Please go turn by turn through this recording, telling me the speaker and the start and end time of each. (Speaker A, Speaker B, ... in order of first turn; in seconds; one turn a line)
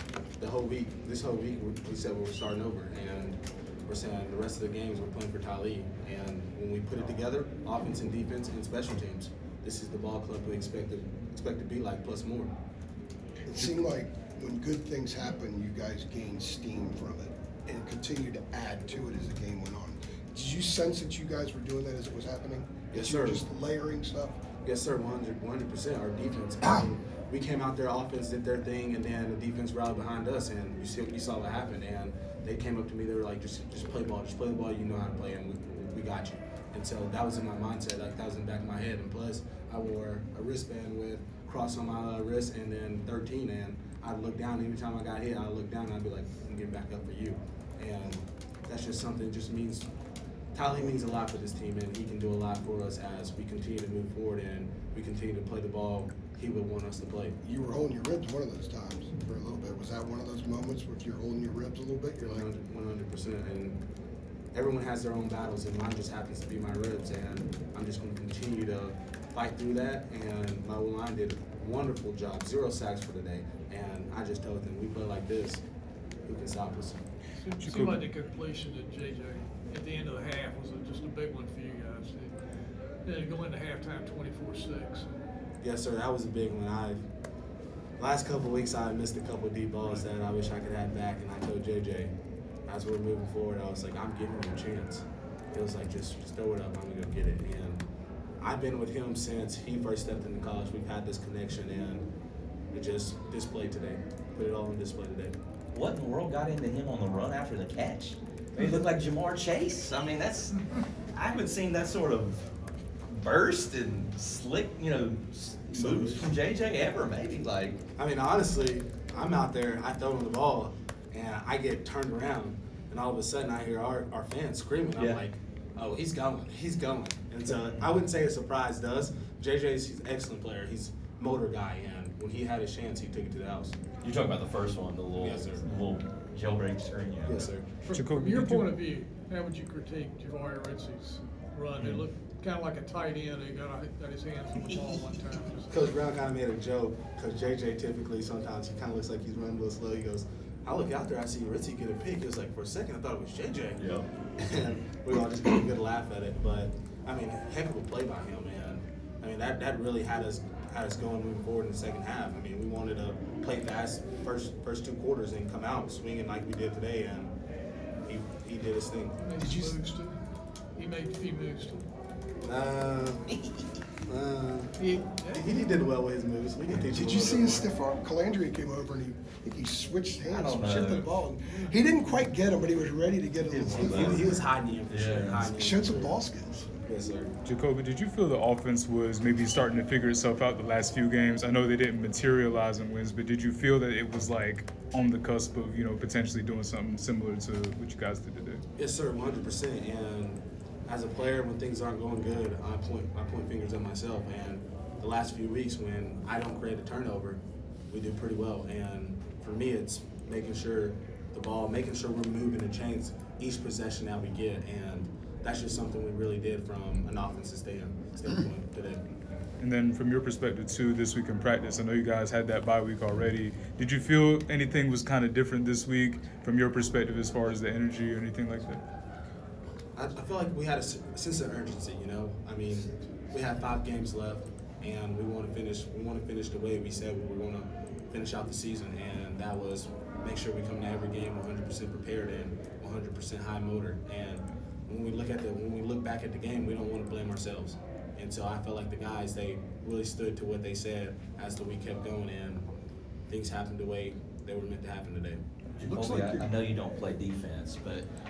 Speaker A: 0.4-12.5
Speaker B: 13.4-24.4
Speaker A: 22.9-23.4
Speaker A: 24.6-49.9
Speaker A: 50.5-57.4
Speaker B: 57.4-62.5
Speaker A: 62.2-63.8
Speaker A: 64.5-75.6
Speaker A: 76.2-77.0
Speaker C: 77.3-82.3
Speaker D: 77.6-78.0
Speaker C: 83.0-85.1
Speaker A: 85.6-87.0
Speaker A: 88.0-92.1
Speaker A: 92.7-97.8
Speaker A: 98.4-102.1
Speaker A: 102.7-105.4
Speaker E: 105.7-112.4
Speaker E: 113.1-117.8
Speaker A: 115.8-116.2
Speaker A: 118.0-133.8
Speaker E: 125.0-125.2
Speaker E: 134.0-137.5
Speaker A: 135.1-135.7
Speaker A: 137.2-137.7
Speaker C: 137.8-145.9
Speaker D: 137.9-138.7
Speaker A: 145.7-167.3
Speaker E: 153.8-154.1
Speaker A: 168.1-169.2
Speaker C: 169.2-170.2
Speaker B: 169.4-169.8
Speaker C: 170.7-171.8
Speaker A: 172.4-173.3
Speaker A: 174.1-177.7
Speaker C: 174.8-175.6
Speaker B: 176.7-184.4
Speaker E: 180.2-181.1
Speaker C: 181.5-181.8
Speaker E: 183.4-185.5
Speaker A: 183.9-186.2
Speaker B: 185.5-186.7
Speaker A: 186.8-187.3
Speaker D: 187.4-198.6
Speaker A: 198.8-219.0
Speaker D: 219.6-228.8
Speaker A: 229.9-252.7
Speaker A: 253.3-255.4
Speaker E: 255.8-258.1
Speaker B: 255.8-256.5